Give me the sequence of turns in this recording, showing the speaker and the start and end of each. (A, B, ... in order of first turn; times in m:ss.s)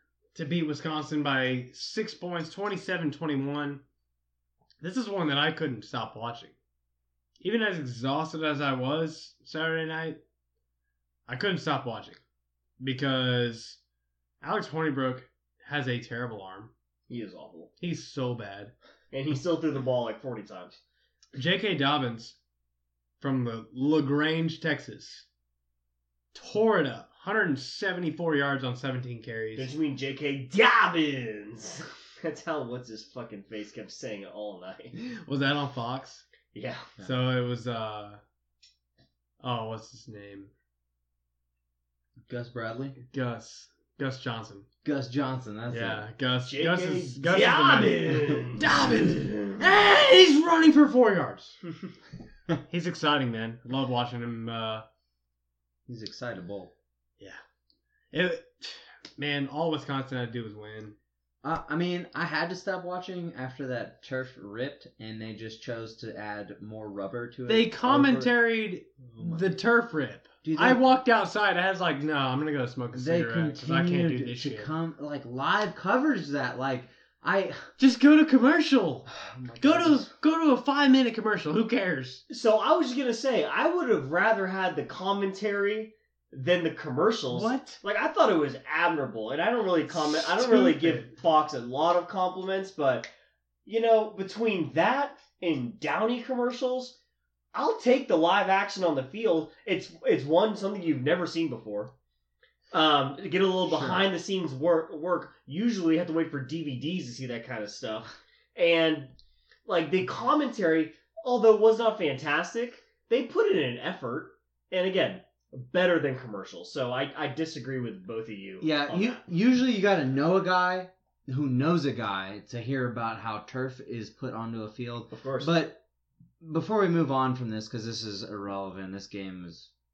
0:00.3-0:03.8 A
0:04.8-0:06.5 A
0:07.4-0:10.2 A
0:11.3-0:12.2 A
0:12.8-0:13.8 A
0:14.4-0:16.7 A
0:17.1-0:17.7 B
0:17.8-0:18.7 A
0:19.1-0:20.8 B
0:21.3-0:22.4 A
0:23.2-0:25.2 A
0:26.3-0:29.7 A
0:29.5-0:34.9 B
0:35.0-0:36.2 A
0:36.5-0:36.9 B
0:37.0-0:38.2 A
0:39.4-0:40.5 A
0:42.3-0:43.0 C
0:43.1-0:44.6 A
0:44.8-0:46.1 C
0:45.7-0:51.6 A
0:46.4-0:48.9 B
0:52.7-0:54.8 A
0:55.8-0:56.7 C
0:58.1-1:01.0 A
1:01.4-1:08.4 C
1:07.5-1:14.7 A
1:09.0-1:09.6 C
1:10.4-1:10.9 C
1:12.9-1:17.7 C
1:17.8-1:19.1 A
1:19.1-1:20.1 C
1:19.6-1:22.2 A
1:22.3-1:33.1 B
1:27.3-1:27.8 A
1:29.9-1:31.1 A
1:33.6-1:37.0 B
1:37.5-1:41.9 B
1:42.7-1:49.1 B
1:43.7-1:44.0 C
1:49.6-1:59.2 B
1:58.6-2:05.8 C
2:05.1-2:05.6 B
2:06.4-2:09.7 C